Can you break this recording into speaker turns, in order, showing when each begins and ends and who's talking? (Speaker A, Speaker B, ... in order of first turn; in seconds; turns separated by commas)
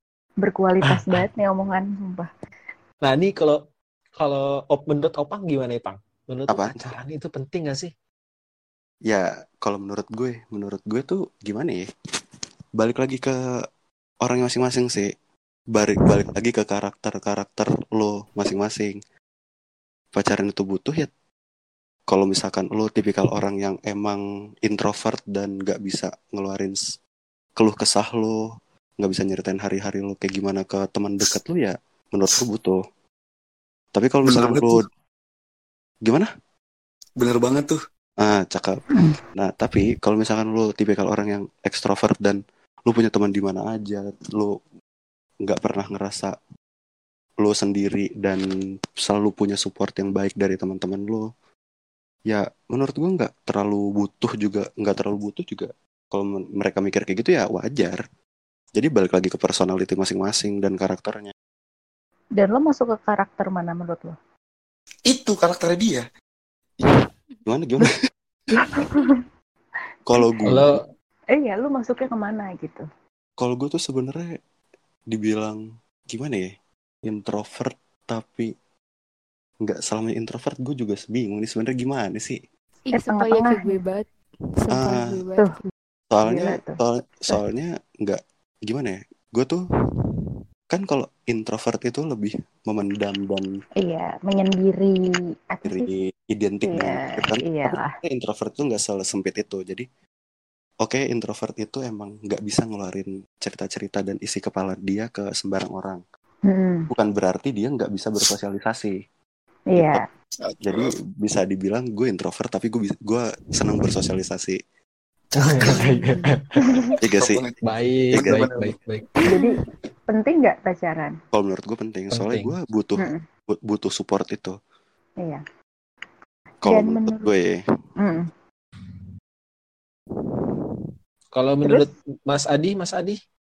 Speaker A: 0.4-2.3, Speaker B: 3.0-3.6, Speaker B: 4.2-7.9, Speaker C: 6.5-6.8, Speaker C: 9.1-11.9, Speaker C: 12.8-13.4, Speaker C: 14.2-15.1, Speaker C: 15.7-19.0, Speaker C: 20.1-21.1, Speaker C: 22.1-26.8, Speaker C: 27.6-28.4, Speaker C: 29.0-32.8, Speaker C: 33.9-34.8, Speaker D: 34.2-34.9, Speaker D: 37.2-37.8, Speaker C: 38.2-44.5, Speaker A: 38.9-39.2, Speaker C: 45.4-46.3, Speaker C: 47.4-48.5, Speaker C: 49.0-51.3, Speaker C: 52.3-58.0, Speaker C: 58.8-61.3, Speaker A: 62.4-64.2, Speaker D: 65.1-66.0, Speaker E: 66.9-67.3, Speaker C: 67.5-67.9, Speaker A: 68.7-69.2, Speaker E: 68.7-69.0, Speaker C: 70.1-70.8, Speaker A: 70.2-70.6, Speaker B: 70.5-70.8, Speaker A: 71.3-72.8, Speaker C: 73.4-74.3, Speaker C: 75.1-76.5, Speaker C: 77.0-78.5, Speaker C: 79.6-82.4, Speaker E: 82.9-84.0, Speaker A: 83.0-83.8, Speaker E: 84.6-85.6, Speaker C: 84.7-85.2, Speaker A: 85.3-85.7, Speaker C: 86.1-89.6, Speaker A: 86.2-87.4, Speaker E: 90.0-90.4, Speaker C: 90.7-93.5, Speaker A: 93.8-95.0, Speaker A: 95.5-95.9, Speaker C: 95.6-99.8, Speaker A: 96.7-97.9, Speaker C: 100.8-106.0, Speaker A: 106.5-106.9, Speaker C: 106.9-109.0, Speaker A: 109.7-110.1, Speaker C: 109.7-110.0, Speaker D: 110.4-110.9, Speaker C: 110.6-114.6, Speaker B: 115.3-116.7, Speaker E: 115.7-116.3, Speaker A: 116.7-116.9, Speaker D: 117.0-118.8, Speaker C: 117.0-117.4, Speaker B: 117.6-119.1, Speaker C: 118.1-118.5, Speaker E: 119.2-119.5, Speaker A: 119.2-121.2, Speaker C: 121.3-124.5, Speaker B: 122.1-122.5, Speaker A: 123.0-123.2, Speaker C: 126.6-127.6, Speaker A: 126.6-127.3, Speaker A: 128.0-128.3, Speaker E: 130.3-130.9, Speaker B: 131.3-133.2, Speaker A: 131.6-131.9